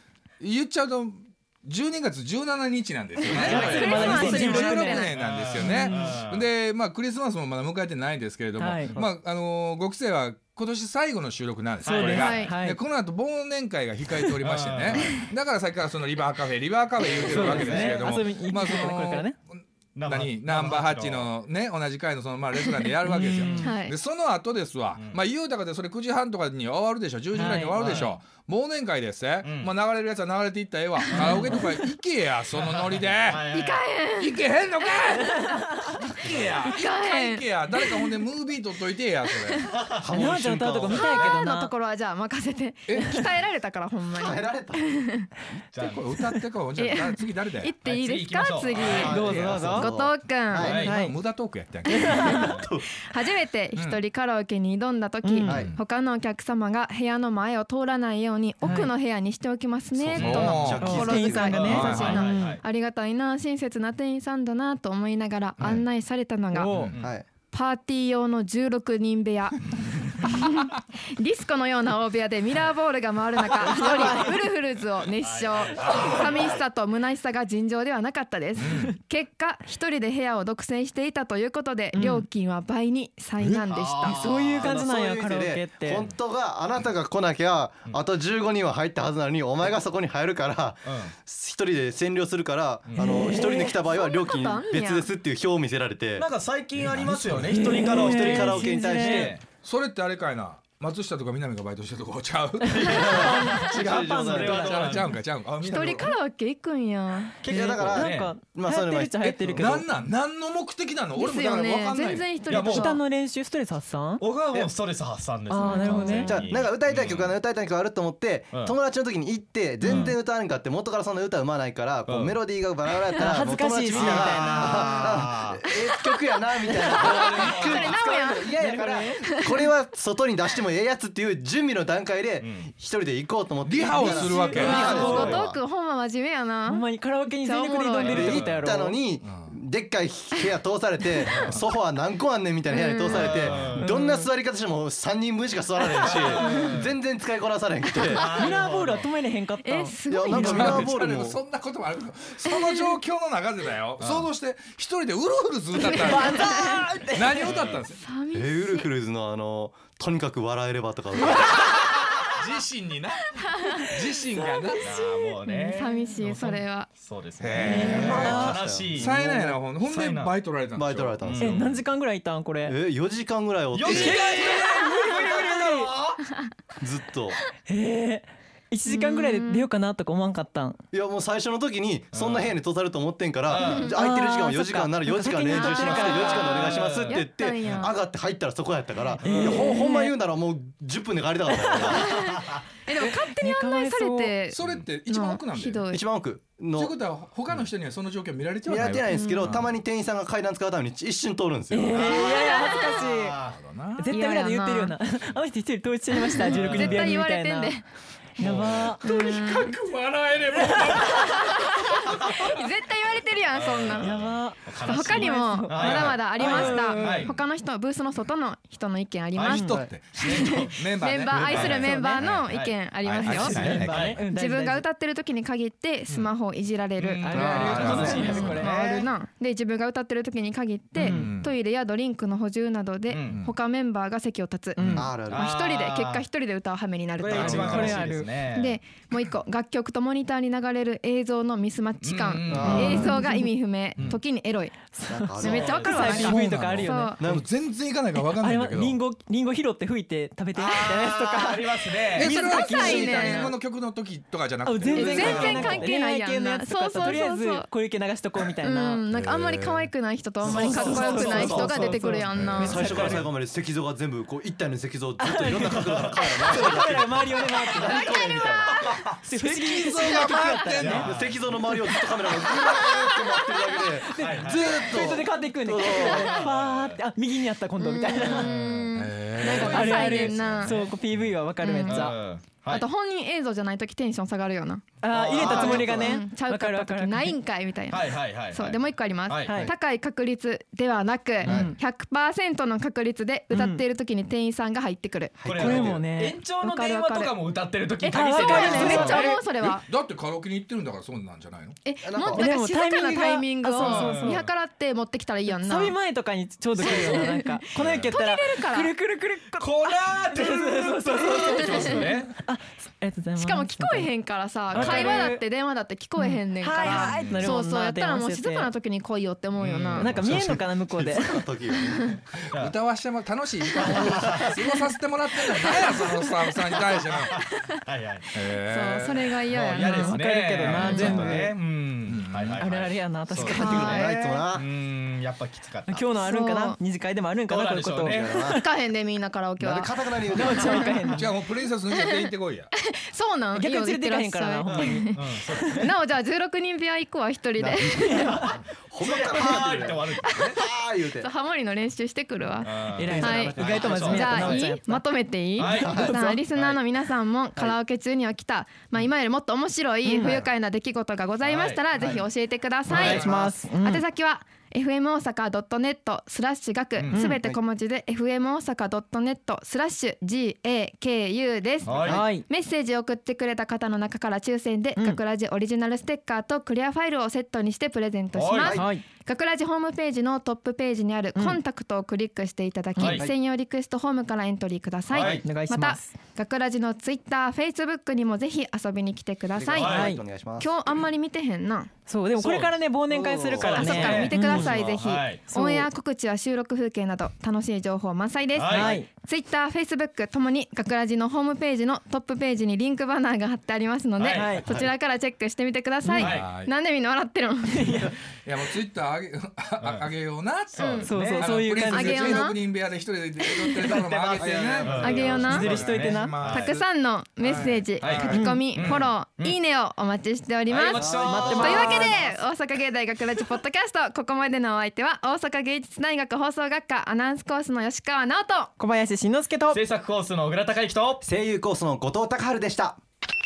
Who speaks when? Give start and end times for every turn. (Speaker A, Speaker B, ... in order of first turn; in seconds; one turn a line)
Speaker A: 0.4-33.4
Speaker B: 3.2-5.2
Speaker C: 3.3-6.5
Speaker D: 3.4-6.1
Speaker D: 8.6-9.0
Speaker C: 11.8-12.5
Speaker D: 11.8-12.8
Speaker B: 12.1-12.5
Speaker C: 14.4-15.3
Speaker C: 17.0-18.0
Speaker D: 17.2-19.4
Speaker C: 19.9-21.3
Speaker D: 23.0-23.7
Speaker C: 23.4-23.8
Speaker B: 23.6-23.9
Speaker C: 24.9-25.2
Speaker D: 27.4-28.1
Speaker C: 27.4-28.2
Speaker C: 29.4-29.8
Speaker C: 31.1-31.5
Speaker D: 31.3-31.6
Speaker C: 32.5-34.0
Speaker B: 33.5-34.4
Speaker A: 34.2-39.7
Speaker B: 35.1-35.6
Speaker B: 36.2-38.2
Speaker C: 36.3-36.6
Speaker B: 39.4-39.7
Speaker C: 39.7-40.1
Speaker E: 40.0-41.1
Speaker D: 40.1-41.7
Speaker B: 40.9-45.3
Speaker C: 41.0-41.4
Speaker A: 42.9-43.2
Speaker E: 44.1-44.9
Speaker C: 45.7-46.1
Speaker A: 45.8-47.7
Speaker B: 46.2-50.8
Speaker C: 47.8-49.1
Speaker E: 48.9-50.8
Speaker D: 49.1-49.9
Speaker A: 49.1-49.8
Speaker C: 50.6-51.0
Speaker A: 50.6-52.4
Speaker D: 50.8-51.2
Speaker B: 51.9-66.8
Speaker D: 51.9-52.4
Speaker E: 52.3-52.9
Speaker A: 53.8-54.0
Speaker D: 55.2-55.6
Speaker E: 55.5-55.7
Speaker A: 55.5-55.8
Speaker D: 58.6-58.9
Speaker E: 59.9-61.9
Speaker A: 60.2-61.0
Speaker D: 60.8-62.5
Speaker C: 61.5-62.6
Speaker A: 61.6-62.1
Speaker D: 66.5-66.9
Speaker A: 66.7-67.0
Speaker E: 67.0-67.2
Speaker B: 67.4-84.5
Speaker C: 73.6-74.3
Speaker D: 73.6-74.4
Speaker C: 75.2-76.6
Speaker A: 78.6-79.0
Speaker D: 81.9-82.2
Speaker A: 83.4-83.7
Speaker C: 83.7-84.7
Speaker D: 84.0-86.0
Speaker E: 84.6-96.3
Speaker C: 90.8-91.1
Speaker C: 92.9-93.4
Speaker D: 93.0-93.3
Speaker B: 93.2-95.1
Speaker C: 96.2-99.4
Speaker A: 96.8-97.7
Speaker E: 97.0-99.4
Speaker D: 97.5-99.3
Speaker A: 99.5-103.2
Speaker D: 102.6-104.7
Speaker C: 102.7-105.2
Speaker E: 102.8-105.0
Speaker A: 104.0-106.1
Speaker B: 105.7-107.4
Speaker C: 107.4-108.3
Speaker D: 107.4-109.8
Speaker E: 107.5-109.8
Speaker A: 109.6-112.4
Speaker B: 111.1-113.0
Speaker C: 112.4-112.9
Speaker D: 112.5-114.2
Speaker C: 114.2-117.4
Speaker D: 115.5-116.3
Speaker E: 115.8-135.6
Speaker C: 118.5-118.8
Speaker C: 119.8-120.1
Speaker D: 119.9-120.1
Speaker C: 122.0-122.4
Speaker D: 123.1-125.3
Speaker C: 123.9-125.6
Speaker B: 125.8-128.6
Speaker D: 126.9-127.9
Speaker C: 127.2-128.0
Speaker D: 128.6-129.2
Speaker C: 132.4-132.7
Speaker A: 133.6-134.9
Speaker D: 133.9-135.4
Speaker B: 134.5-138.3
Speaker C: 134.9-135.4
Speaker D: 136.7-139.0
Speaker E: 138.0-148.3
Speaker C: 138.2-138.7
Speaker A: 139.2-139.6
Speaker B: 141.2-141.5
Speaker C: 141.3-141.6
Speaker B: 142.7-143.3
Speaker C: 143.1-143.9
Speaker D: 143.8-144.2
Speaker B: 145.9-146.7
Speaker C: 146.0-147.0
Speaker B: 147.9-148.5
Speaker C: 148.1-149.1
Speaker D: 148.2-149.9
Speaker B: 149.6-150.6
Speaker E: 150.1-151.4
Speaker A: 150.3-158.0
Speaker B: 152.4-153.0
Speaker B: 155.7-156.8
Speaker D: 155.9-157.5
Speaker C: 157.4-157.8
Speaker B: 157.9-158.9
Speaker E: 158.3-161.5
Speaker A: 161.6-164.9
Speaker B: 163.4-163.8
Speaker D: 164.4-164.8
Speaker C: 164.8-169.2
Speaker B: 165.4-166.9
Speaker A: 167.4-171.6
Speaker D: 167.6-168.6
Speaker E: 167.6-169.6
Speaker C: 169.7-170.4
Speaker E: 170.7-171.6
Speaker C: 171.2-171.8
Speaker D: 171.4-172.7
Speaker E: 172.6-174.2
Speaker C: 173.7-176.2
Speaker D: 173.8-175.9
Speaker E: 176.8-177.4
Speaker D: 177.7-180.8
Speaker B: 178.8-179.7
Speaker E: 180.9-192.3
Speaker C: 182.1-182.6
Speaker C: 183.5-183.9
Speaker B: 183.6-184.0
Speaker D: 183.9-186.7
Speaker B: 185.5-187.9
Speaker C: 186.5-187.2
Speaker D: 189.2-190.1
Speaker D: 191.5-191.9
Speaker B: 191.8-196.0
Speaker D: 193.0-194.3
Speaker A: 193.0-193.3
Speaker A: 194.5-195.9
Speaker E: 195.9-196.9
Speaker A: 196.7-199.8
Speaker E: 198.7-202.2
Speaker B: 199.1-199.4
Speaker D: 199.1-199.5
Speaker D: 201.7-203.4
Speaker C: 201.9-203.6
Speaker B: 202.1-203.0
Speaker A: 203.5-204.1
Speaker D: 204.0-207.8
Speaker B: 204.1-204.9
Speaker B: 206.3-207.8
Speaker C: 206.5-207.2
Speaker D: 208.4-209.2
Speaker C: 208.4-209.0
Speaker A: 209.0-211.4
Speaker B: 209.0-209.7
Speaker D: 210.5-211.1
Speaker B: 210.9-214.1
Speaker C: 213.5-217.4
Speaker D: 214.0-217.3
Speaker B: 214.8-244.7
Speaker A: 219.3-222.2
Speaker D: 219.4-219.8
Speaker C: 220.2-220.8
Speaker C: 221.3-224.2
Speaker D: 221.6-222.2
Speaker A: 223.0-224.2
Speaker E: 223.2-223.9
Speaker D: 223.2-224.8
Speaker C: 227.0-229.1
Speaker D: 227.2-228.7
Speaker E: 227.3-228.3
Speaker A: 227.4-228.1
Speaker D: 230.9-231.3
Speaker A: 231.0-231.5
Speaker C: 233.1-233.4
Speaker D: 234.7-235.1
Speaker A: 234.8-235.2
Speaker E: 234.9-235.5
Speaker C: 235.2-236.2
Speaker C: 237.2-238.8
Speaker A: 237.3-238.1
Speaker D: 237.4-238.3
Speaker C: 242.0-243.2
Speaker E: 242.4-243.1
Speaker D: 242.6-243.5
Speaker C: 243.9-244.2
Speaker D: 244.9-247.3
Speaker E: 245.1-245.8
Speaker B: 245.4-247.3
Speaker C: 245.5-246.3
Speaker A: 246.0-249.0
Speaker E: 247.2-247.4
Speaker D: 248.1-253.6
Speaker C: 250.6-252.3
Speaker A: 252.1-255.6
Speaker B: 252.2-253.5
Speaker D: 254.6-259.0
Speaker E: 254.8-255.9
Speaker B: 254.9-257.7
Speaker B: 258.6-262.8
Speaker E: 259.1-268.8
Speaker D: 260.4-263.3
Speaker A: 262.4-263.2
Speaker D: 265.2-268.5
Speaker C: 265.7-266.8
Speaker B: 267.8-269.0
Speaker D: 269.2-271.1
Speaker A: 269.4-271.3
Speaker B: 269.9-270.6
Speaker C: 270.8-271.1
Speaker E: 271.0-276.4
Speaker B: 272.4-273.6
Speaker D: 272.4-273.1
Speaker D: 273.8-278.5
Speaker C: 274.2-275.0
Speaker B: 275.9-276.4
Speaker C: 276.2-277.0
Speaker B: 277.8-280.7
Speaker C: 278.2-278.9
Speaker A: 278.9-281.3
Speaker D: 279.4-282.1
Speaker C: 280.6-280.9
Speaker B: 281.6-295.5
Speaker C: 281.8-282.9
Speaker D: 285.0-287.3
Speaker C: 285.1-286.0
Speaker E: 285.4-286.1
Speaker C: 287.9-289.7
Speaker D: 289.4-289.7
Speaker E: 291.4-291.7
Speaker D: 291.4-291.7
Speaker D: 293.5-293.8
Speaker E: 295.4-296.0
Speaker C: 295.4-299.2
Speaker D: 295.6-296.4
Speaker B: 296.6-297.3
Speaker B: 298.0-299.9
Speaker D: 298.1-299.5
Speaker E: 298.6-299.2
Speaker A: 299.9-301.8
Speaker B: 301.8-306.0
Speaker E: 302.0-302.5
Speaker D: 302.3-304.4
Speaker C: 303.8-304.4
Speaker D: 305.5-314.1
Speaker B: 306.8-308.9
Speaker C: 307.7-308.1
Speaker C: 309.5-312.3
Speaker B: 311.2-312.0
Speaker B: 313.4-320.1
Speaker D: 314.7-315.4
Speaker C: 314.7-315.2
Speaker D: 316.2-318.7
Speaker A: 316.9-317.3
Speaker C: 317.2-317.4
Speaker C: 319.6-320.6
Speaker D: 319.9-321.4
Speaker E: 320.1-322.2
Speaker C: 322.5-322.8
Speaker A: 322.6-327.3
Speaker B: 323.6-324.8
Speaker E: 323.8-324.4
Speaker C: 324.1-324.5
Speaker B: 325.5-326.8
Speaker C: 326.9-328.3
Speaker A: 328.3-329.4
Speaker B: 328.5-330.2
Speaker C: 329.5-336.1
Speaker D: 329.7-331.5
Speaker A: 330.6-331.2
Speaker B: 330.7-331.3
Speaker A: 332.1-332.6
Speaker D: 332.6-334.0
Speaker B: 333.5-334.3
Speaker E: 333.6-334.6
Speaker D: 335.9-338.6
Speaker B: 336.1-336.8
Speaker C: 337.5-338.4
Speaker E: 338.0-338.6
Speaker B: 338.4-341.3
Speaker E: 339.6-340.9
Speaker D: 340.3-341.3
Speaker A: 341.1-342.7
Speaker B: 341.9-348.6
Speaker D: 343.5-345.1
Speaker C: 344.7-345.9
Speaker E: 347.6-350.1
Speaker C: 349.0-350.6
Speaker B: 349.6-390.0
Speaker E: 350.6-351.3
Speaker C: 352.6-354.7
Speaker D: 353.0-355.0
Speaker E: 353.1-354.6
Speaker C: 355.6-356.0
Speaker D: 355.6-356.4
Speaker E: 355.7-356.8
Speaker D: 360.0-360.4
Speaker E: 360.2-360.5
Speaker C: 361.4-362.2
Speaker E: 361.9-362.2
Speaker C: 362.9-363.3
Speaker D: 362.9-364.0
Speaker E: 362.9-363.1
Speaker C: 367.0-367.3
Speaker D: 367.1-367.4
Speaker C: 371.8-372.3
Speaker D: 372.1-372.4
Speaker C: 378.3-378.8
Speaker D: 378.7-379.0
Speaker D: 383.0-383.3
Speaker C: 383.0-383.3
Speaker C: 385.1-385.6
Speaker D: 385.2-386.1
Speaker E: 389.5-390.7
Speaker C: 389.8-390.1
Speaker D: 389.8-390.2
Speaker B: 390.6-391.9
Speaker D: 392.1-394.8
Speaker C: 392.4-392.8
Speaker E: 393.1-393.8
Speaker C: 393.5-395.5
Speaker B: 393.7-408.0
Speaker D: 395.5-395.9
Speaker C: 398.5-399.0
Speaker D: 398.7-399.1
Speaker C: 404.3-404.7
Speaker D: 404.3-404.6
Speaker D: 406.0-406.3
Speaker C: 406.1-406.6
Speaker A: 406.3-406.7
Speaker D: 407.7-408.1
Speaker A: 407.9-419.0
Speaker C: 409.8-410.1
Speaker C: 410.7-411.6
Speaker B: 410.8-411.1
Speaker D: 411.0-412.5
Speaker B: 411.9-412.6
Speaker B: 413.4-414.0
Speaker E: 414.1-415.7
Speaker C: 414.3-416.7
Speaker B: 415.0-415.6
Speaker D: 415.5-416.4
Speaker B: 416.4-428.7
Speaker C: 418.0-419.6
Speaker D: 418.3-418.6
Speaker C: 420.7-422.2
Speaker E: 420.9-422.3
Speaker D: 421.2-422.2
Speaker D: 428.8-429.8
Speaker C: 429.7-431.2
Speaker E: 431.2-432.9